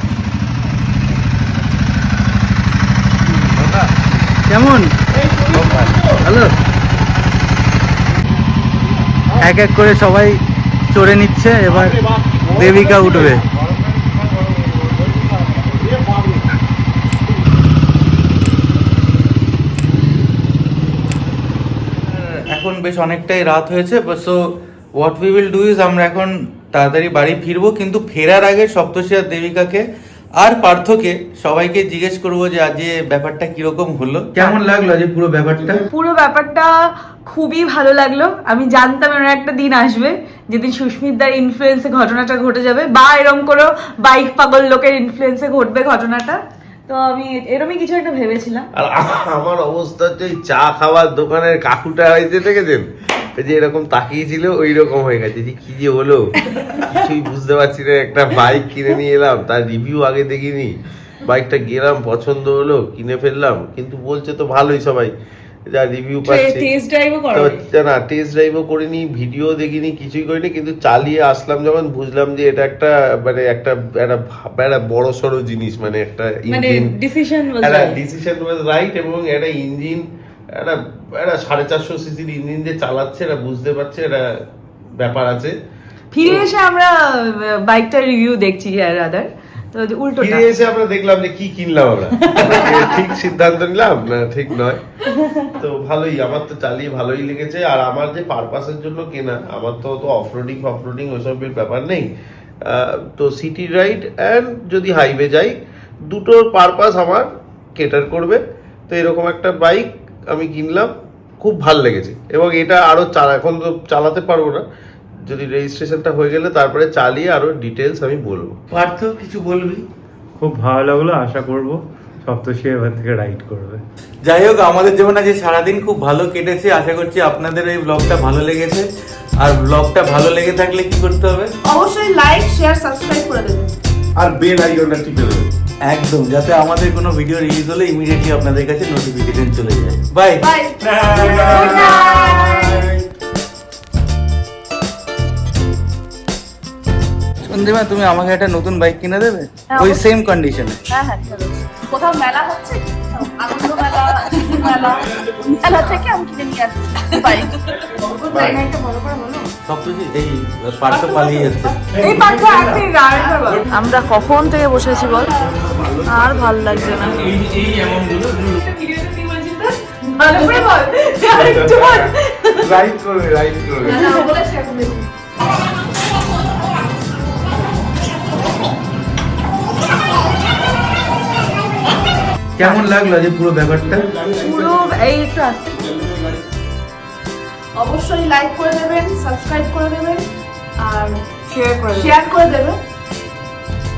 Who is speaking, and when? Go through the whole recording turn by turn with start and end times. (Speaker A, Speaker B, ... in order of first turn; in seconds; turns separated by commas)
Speaker A: 3.5-3.9, Speaker B: 4.5-4.9, Speaker A: 5.2-6.2, Speaker B: 5.5-6.5, Speaker B: 9.4-10.4, Speaker B: 10.9-12.0, Speaker A: 11.7-16.4, Speaker B: 12.5-13.4, Speaker B: 22.1-24.4, Speaker B: 25.0-29.8, Speaker B: 30.4-35.9, Speaker C: 36.0-36.6, Speaker C: 37.3-37.8, Speaker D: 38.7-39.1, Speaker C: 39.3-39.7, Speaker C: 40.8-41.8, Speaker C: 42.6-43.6, Speaker C: 45.3-45.6, Speaker D: 45.8-46.3, Speaker A: 48.8-65.1, Speaker A: 65.7-66.7, Speaker A: 67.3-77.0, Speaker A: 77.6-80.0, Speaker A: 80.6-84.2, Speaker A: 85.0-85.5, Speaker A: 86.2-86.5, Speaker C: 86.2-86.9, Speaker C: 87.6-89.2, Speaker C: 89.8-90.4, Speaker A: 90.2-94.8, Speaker A: 95.5-102.1, Speaker A: 102.7-105.5, Speaker A: 106.1-114.6, Speaker A: 115.2-118.5, Speaker B: 118.7-119.8, Speaker E: 120.4-123.8, Speaker B: 124.3-128.8, Speaker B: 129.4-131.5, Speaker D: 131.7-133.7, Speaker A: 134.2-135.5, Speaker B: 135.9-140.4, Speaker D: 140.4-142.9, Speaker A: 140.8-143.0, Speaker B: 147.4-150.8, Speaker D: 149.7-150.1, Speaker D: 150.9-159.4, Speaker A: 158.3-158.6, Speaker B: 159.7-161.9, Speaker D: 161.9-165.5, Speaker C: 162.0-163.6, Speaker A: 165.5-167.4, Speaker D: 166.1-167.3, Speaker D: 169.3-172.0, Speaker A: 171.3-174.1, Speaker D: 173.8-175.0, Speaker B: 182.6-184.1, Speaker A: 184.1-184.9, Speaker D: 184.4-185.3, Speaker C: 184.7-185.6, Speaker D: 187.8-190.2, Speaker D: 190.8-191.2, Speaker C: 191.6-192.0, Speaker D: 191.9-192.8